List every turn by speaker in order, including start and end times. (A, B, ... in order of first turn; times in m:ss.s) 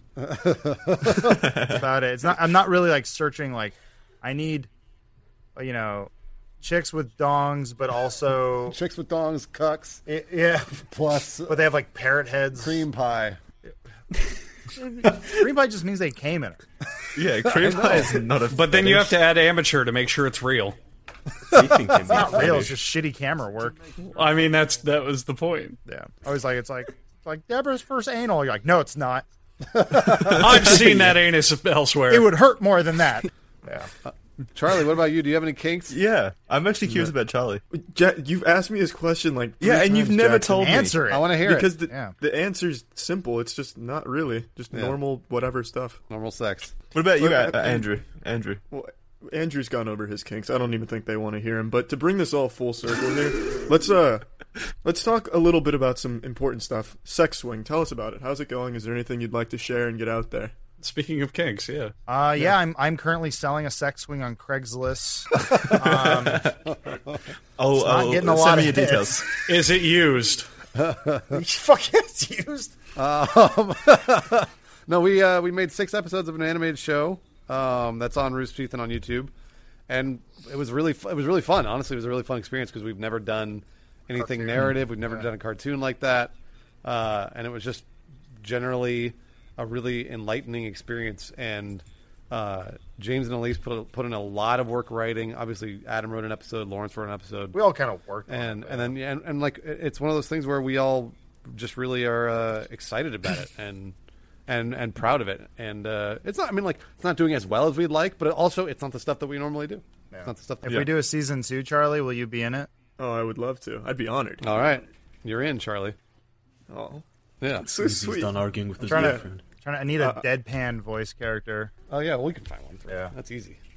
0:00.2-0:01.6 A
0:01.3-0:01.8 B
0:01.6-0:04.7 C
0:05.6-0:08.8 C
0:08.7-0:10.0 A
0:10.1-0:10.8 C
0:10.8-0:11.7 A
0:11.5-0:12.8 C
0:12.6-0:13.4 A
0:14.8-0:16.6 C
0:17.1-0:19.2 B
0:17.5-0:18.2 A
0:18.5-0:20.8 D
0:21.5-0:22.8 E
0:22.1-0:24.0 C
0:24.1-0:25.8 D
0:25.9-0:29.2 C
0:29.7-0:30.7 A
0:30.4-0:32.3 D
0:32.1-0:33.9 C
0:34.0-0:35.9 A
0:35.9-0:37.6 B
0:37.7-0:40.9 F
0:39.6-0:41.0 B
0:40.5-0:42.1 C
0:41.1-0:41.7 A
0:41.4-0:46.0 F
0:44.7-0:45.0 A
0:46.1-0:46.8 A
0:46.9-0:48.6 B
0:47.2-0:47.9 F
0:48.7-0:54.2 F
0:54.8-1:00.5 F
1:00.8-1:01.9 D
1:02.1-1:06.5 C
1:05.8-1:06.7 B
1:06.8-1:07.2 A
1:07.6-1:09.4 B
1:07.7-1:09.2 C
1:09.5-1:10.5 D
1:10.8-1:11.4 A
1:11.3-1:12.8 C
1:13.0-1:19.3 A
1:19.9-1:26.3 A
1:24.3-1:25.2 C
1:26.8-1:27.9 A
1:28.4-1:37.6 A
1:37.5-1:38.9 C
1:38.3-1:43.9 A
1:44.5-1:50.8 A
1:50.1-1:52.7 C
1:53.0-1:54.5 F
1:54.4-1:56.0 A
1:56.7-1:57.0 F
1:57.4-1:57.6 A
1:57.6-1:59.2 F
1:57.8-1:59.4 E
1:58.9-2:01.7 C
2:00.0-2:00.2 F
2:01.9-2:03.6 A
2:02.9-2:03.1 C